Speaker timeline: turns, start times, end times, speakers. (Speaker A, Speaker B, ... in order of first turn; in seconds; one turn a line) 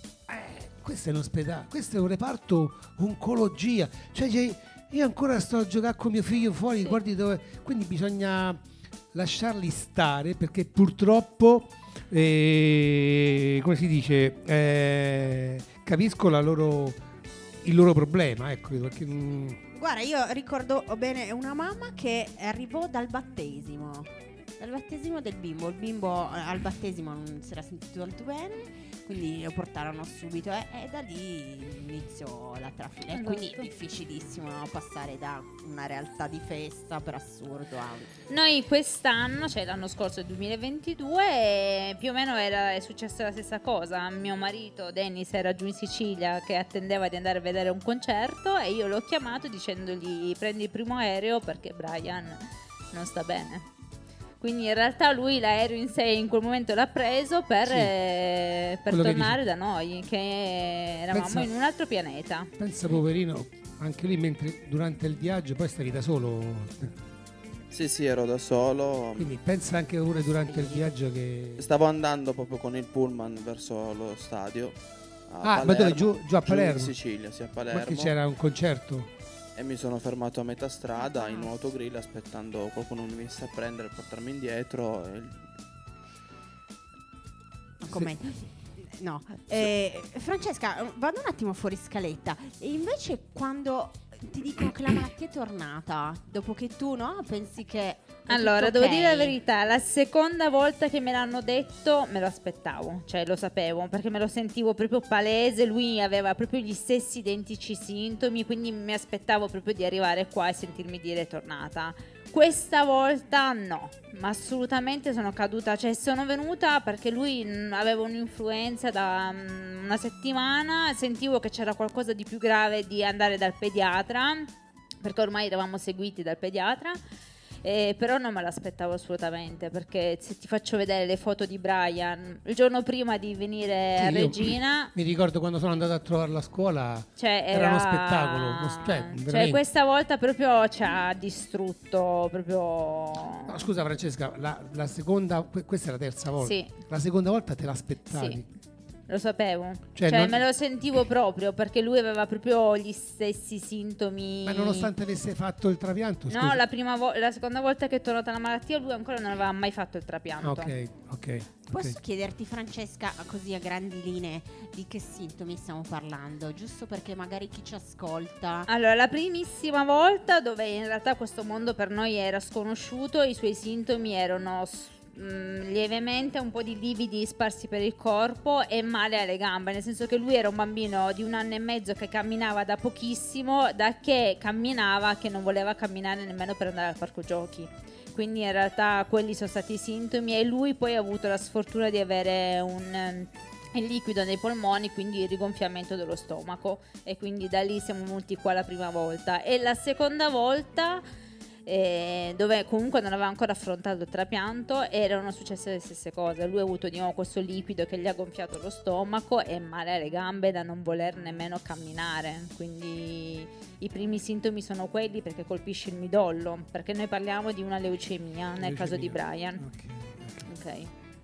Speaker A: 0.3-8.6
Speaker A: 9.1-17.0
Speaker A: 17.6-19.6
Speaker B: 19.7-38.1
Speaker C: 33.1-33.7
Speaker C: 38.3-53.6
Speaker C: 54.4-62.5
Speaker A: 57.6-57.9
Speaker A: 58.9-59.4
Speaker A: 61.1-61.5
Speaker A: 62.6-67.0
Speaker D: 67.7-69.3
Speaker A: 69.2-71.7
Speaker B: 70.5-70.9
Speaker D: 71.6-74.8
Speaker D: 75.3-78.1
Speaker A: 75.4-76.9
Speaker A: 77.7-79.1
Speaker D: 79.5-85.4
Speaker B: 81.1-81.4
Speaker B: 87.8-99.3
Speaker C: 98.3-124.5
Speaker C: 125.0-127.0
Speaker C: 127.6-134.9
Speaker A: 134.0-139.6
Speaker C: 137.2-143.6
Speaker A: 143.4-148.4
Speaker C: 146.4-146.7
Speaker C: 148.1-148.4
Speaker C: 149.1-154.9
Speaker A: 149.9-150.4
Speaker A: 154.4-156.6
Speaker C: 156.3-160.7
Speaker A: 160.4-162.0
Speaker B: 161.7-168.7
Speaker C: 168.7-201.0
Speaker C: 201.7-219.6
Speaker A: 218.6-220.5
Speaker C: 220.4-220.9